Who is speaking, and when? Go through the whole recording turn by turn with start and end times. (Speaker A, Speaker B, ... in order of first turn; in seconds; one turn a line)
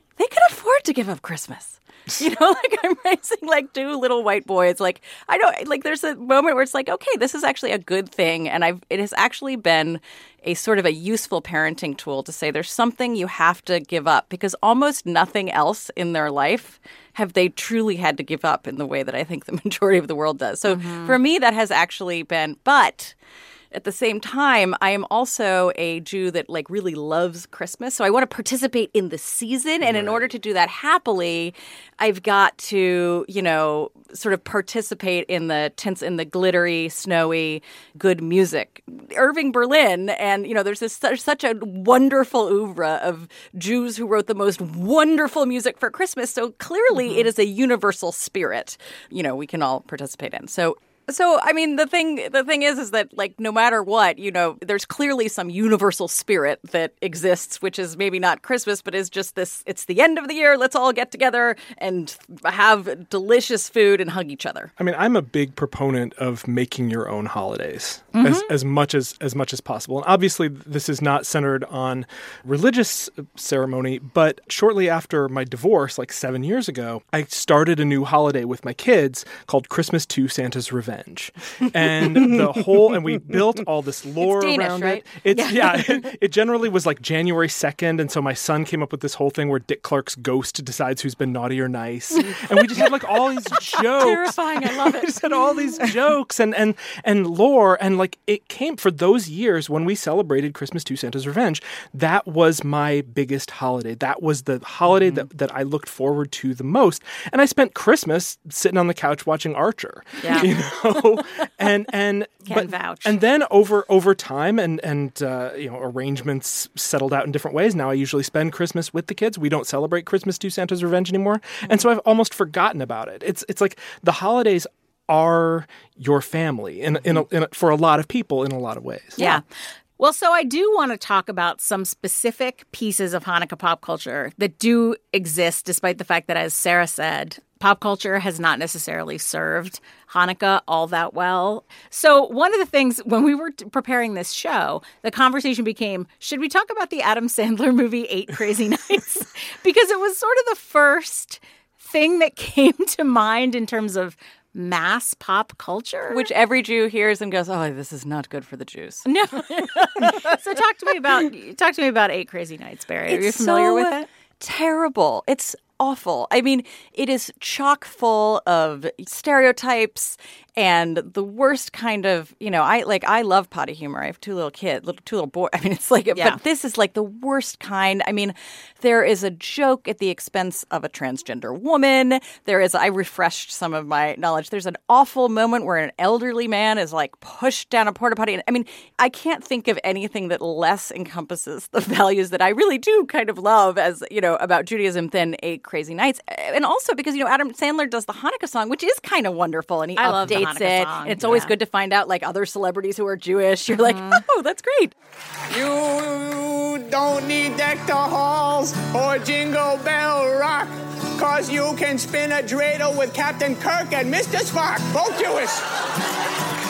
Speaker A: 0.2-23.1
Speaker B: 20.7-21.1
Speaker A: 23.7-64.7
Speaker C: 64.8-129.4
Speaker B: 68.1-68.5
Speaker A: 84.3-85.0
Speaker B: 85.0-86.0
Speaker A: 93.7-95.1
Speaker B: 110.2-110.5
Speaker B: 112.4-113.2
Speaker B: 129.2-129.4
Speaker B: 130.0-156.2
Speaker A: 156.1-159.1
Speaker B: 159.0-164.1
Speaker A: 163.1-204.9
Speaker B: 176.1-176.4
Speaker B: 200.0-201.5
Speaker B: 203.8-204.2
Speaker D: 205.5-215.7